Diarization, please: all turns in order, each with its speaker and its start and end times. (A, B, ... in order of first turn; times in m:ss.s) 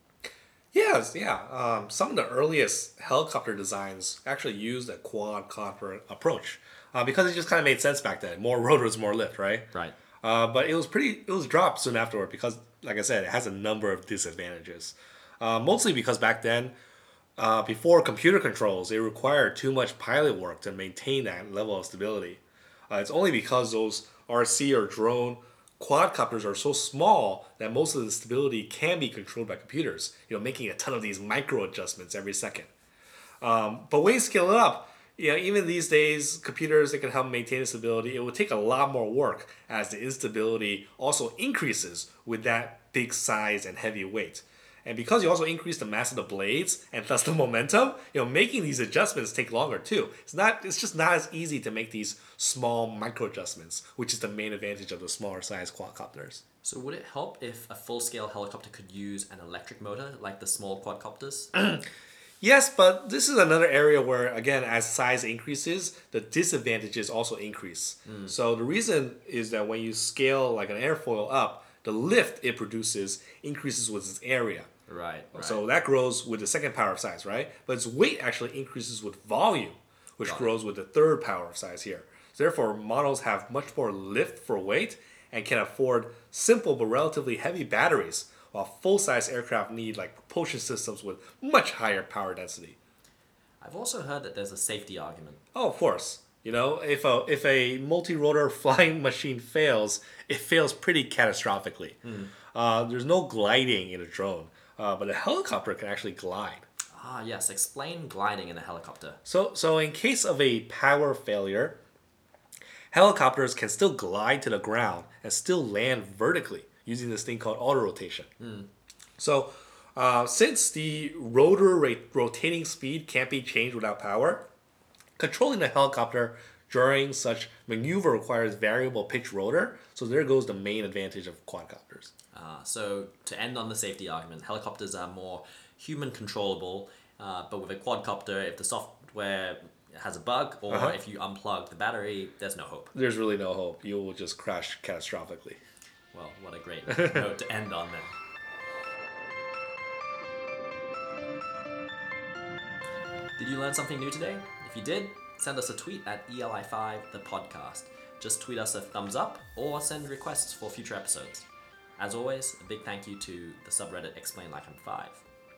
0:00.7-0:09.7 A
0:10.2-0:16.7 A
0:17.4-0:32.7 A
0:33.4-0:56.4 A
0:56.6-1:01.5 B
1:01.5-1:01.8 A
1:02.4-1:14.7 A
1:08.0-1:08.4 B
1:14.9-1:15.6 B
1:15.3-1:32.8 A
1:20.2-1:20.5 B
1:33.6-1:35.4 B
1:35.5-1:42.0 A
1:42.0-1:42.3 B
1:42.5-1:46.6 A
1:46.9-1:49.2 B
1:49.2-1:51.8 A
1:52.9-1:58.3 A
1:58.4-1:58.7 B
1:59.2-2:04.4 A
2:05.2-2:12.1 A
2:12.3-2:22.9 B
2:20.7-2:21.0 A
2:22.9-2:25.6 A
2:26.1-2:28.2 B
2:33.4-2:45.2 B